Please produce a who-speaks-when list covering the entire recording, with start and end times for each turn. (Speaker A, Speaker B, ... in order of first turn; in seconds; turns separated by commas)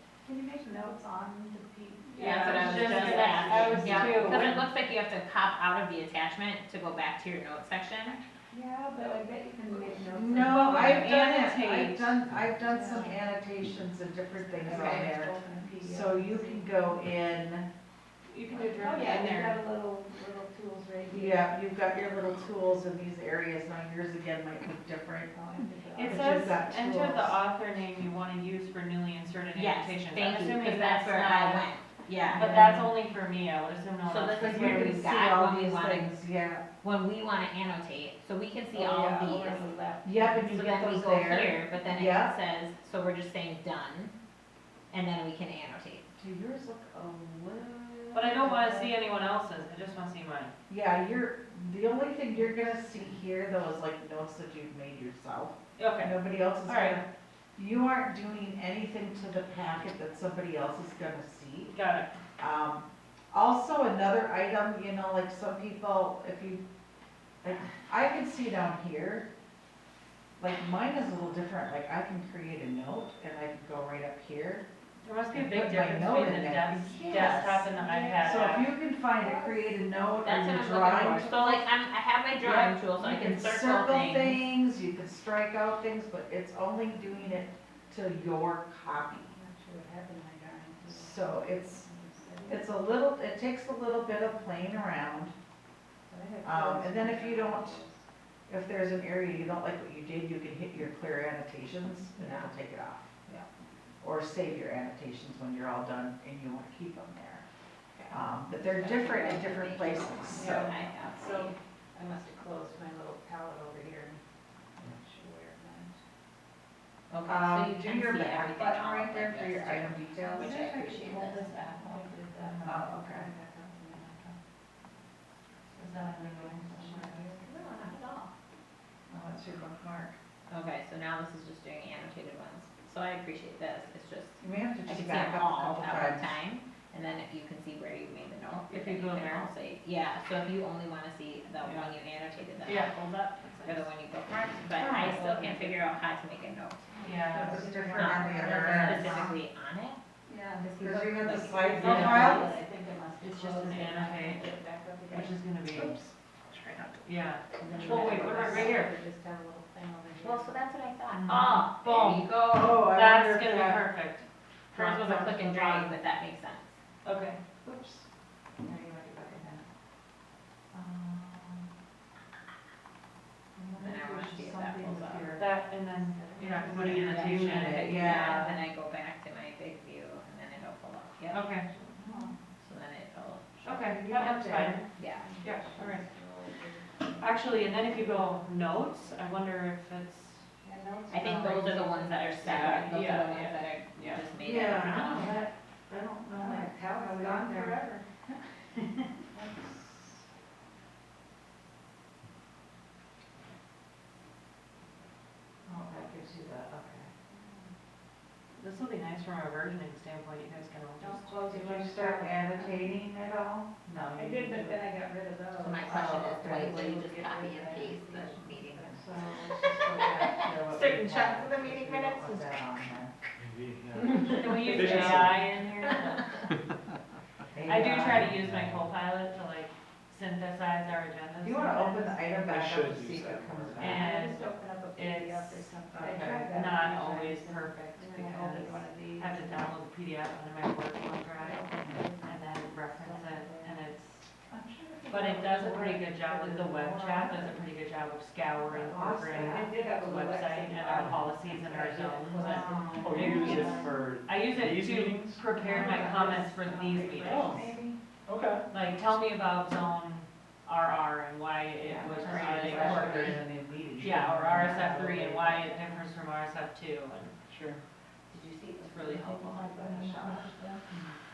Speaker A: 0.2-4.5, Speaker B: 2.1-4.7, Speaker C: 2.2-8.2, Speaker A: 8.5-11.3, Speaker D: 10.1-17.7, Speaker B: 10.8-12.2, Speaker A: 12.6-13.2, Speaker A: 14.5-16.8, Speaker C: 14.7-15.1, Speaker B: 18.3-19.6, Speaker A: 18.5-21.5, Speaker D: 21.1-25.4, Speaker A: 25.3-26.5, Speaker B: 25.9-31.7, Speaker D: 26.0-27.4, Speaker C: 29.5-32.9, Speaker B: 32.3-34.9, Speaker D: 32.3-32.9, Speaker C: 34.0-36.3, Speaker D: 34.4-36.6, Speaker C: 36.8-39.7, Speaker A: 38.7-40.6, Speaker D: 40.0-42.4, Speaker C: 40.5-44.1, Speaker C: 44.9-46.1, Speaker D: 46.2-48.9, Speaker B: 48.1-50.5, Speaker D: 50.7-57.0, Speaker B: 55.8-57.0, Speaker D: 57.5-61.8, Speaker B: 61.7-62.1, Speaker D: 62.4-66.6, Speaker D: 67.4-69.3, Speaker D: 70.4-74.6, Speaker B: 75.0-78.7, Speaker D: 75.3-81.7, Speaker A: 77.7-79.9, Speaker C: 80.2-84.5, Speaker D: 82.4-89.3, Speaker A: 89.3-92.6, Speaker D: 90.9-91.9, Speaker D: 92.5-95.3, Speaker A: 96.1-98.0, Speaker D: 96.4-97.8, Speaker D: 98.5-103.1, Speaker C: 102.2-102.5, Speaker D: 104.0-107.4, Speaker C: 107.9-111.5, Speaker D: 108.1-110.7, Speaker A: 110.3-114.2, Speaker A: 114.8-116.0, Speaker C: 117.1-121.5, Speaker D: 117.2-121.5, Speaker A: 120.4-124.3, Speaker B: 121.5-122.7, Speaker D: 122.6-123.3, Speaker B: 125.7-127.4, Speaker A: 125.8-127.5, Speaker C: 127.3-128.3, Speaker D: 129.1-130.2, Speaker C: 130.5-142.9, Speaker D: 134.4-136.4, Speaker B: 138.7-139.5, Speaker B: 141.6-141.9, Speaker B: 142.6-143.9, Speaker C: 143.6-146.9, Speaker D: 144.8-145.2, Speaker A: 145.2-145.9, Speaker A: 146.9-149.2, Speaker B: 147.0-147.6, Speaker D: 147.4-149.3, Speaker C: 147.7-150.0, Speaker A: 150.3-155.3, Speaker C: 150.6-152.5, Speaker D: 150.8-152.5, Speaker B: 151.8-152.5, Speaker B: 153.2-154.5, Speaker B: 155.1-156.0, Speaker D: 155.8-156.1, Speaker B: 157.0-158.9, Speaker A: 157.6-160.6, Speaker C: 157.8-158.7, Speaker C: 160.2-162.9, Speaker B: 161.1-162.2, Speaker A: 161.3-161.7, Speaker D: 162.0-163.8, Speaker B: 162.8-165.9, Speaker C: 164.7-166.7, Speaker B: 167.0-167.4, Speaker D: 167.6-168.0, Speaker D: 168.6-169.6, Speaker D: 170.7-171.7, Speaker D: 173.6-175.5, Speaker C: 173.8-175.3, Speaker B: 175.3-178.1, Speaker A: 175.9-177.0, Speaker D: 176.7-178.6, Speaker C: 176.7-181.5, Speaker B: 181.3-181.8, Speaker D: 181.9-182.3, Speaker C: 182.6-183.5, Speaker D: 183.6-184.8, Speaker B: 183.6-184.9, Speaker C: 185.0-185.3, Speaker A: 185.2-189.1, Speaker B: 185.4-186.1, Speaker B: 187.2-190.4, Speaker A: 190.6-193.1, Speaker C: 191.1-195.4, Speaker B: 191.2-194.2, Speaker D: 194.4-197.8, Speaker A: 196.3-198.1, Speaker D: 199.3-199.8, Speaker D: 205.7-207.1, Speaker A: 207.3-207.7, Speaker B: 208.6-211.3, Speaker A: 211.0-212.9, Speaker D: 211.5-214.8, Speaker A: 214.1-219.1, Speaker C: 215.6-219.0, Speaker D: 215.9-217.0, Speaker D: 219.0-223.1, Speaker C: 219.9-222.6, Speaker E: 223.6-225.6, Speaker B: 224.3-226.5, Speaker D: 224.6-225.2, Speaker D: 227.5-228.4, Speaker B: 227.6-232.3, Speaker E: 228.3-228.9, Speaker D: 231.4-234.2, Speaker E: 232.4-233.9, Speaker B: 233.8-241.7, Speaker A: 233.9-239.8, Speaker D: 235.9-236.5, Speaker A: 241.3-243.9, Speaker D: 241.8-242.0, Speaker B: 242.2-244.3, Speaker D: 244.5-247.6, Speaker B: 245.1-257.6, Speaker A: 248.7-253.9, Speaker D: 248.9-249.7, Speaker D: 252.4-253.7, Speaker E: 253.0-255.8, Speaker A: 255.5-257.8, Speaker D: 255.7-256.1, Speaker E: 257.2-257.6, Speaker D: 257.2-257.9, Speaker E: 258.3-258.6, Speaker B: 258.7-263.4, Speaker A: 261.8-263.1, Speaker D: 262.2-265.6, Speaker C: 262.2-263.3, Speaker B: 264.0-267.4, Speaker A: 265.6-265.9, Speaker D: 267.5-267.8, Speaker C: 268.3-268.6, Speaker A: 268.8-270.9, Speaker B: 268.8-270.3, Speaker C: 270.0-270.4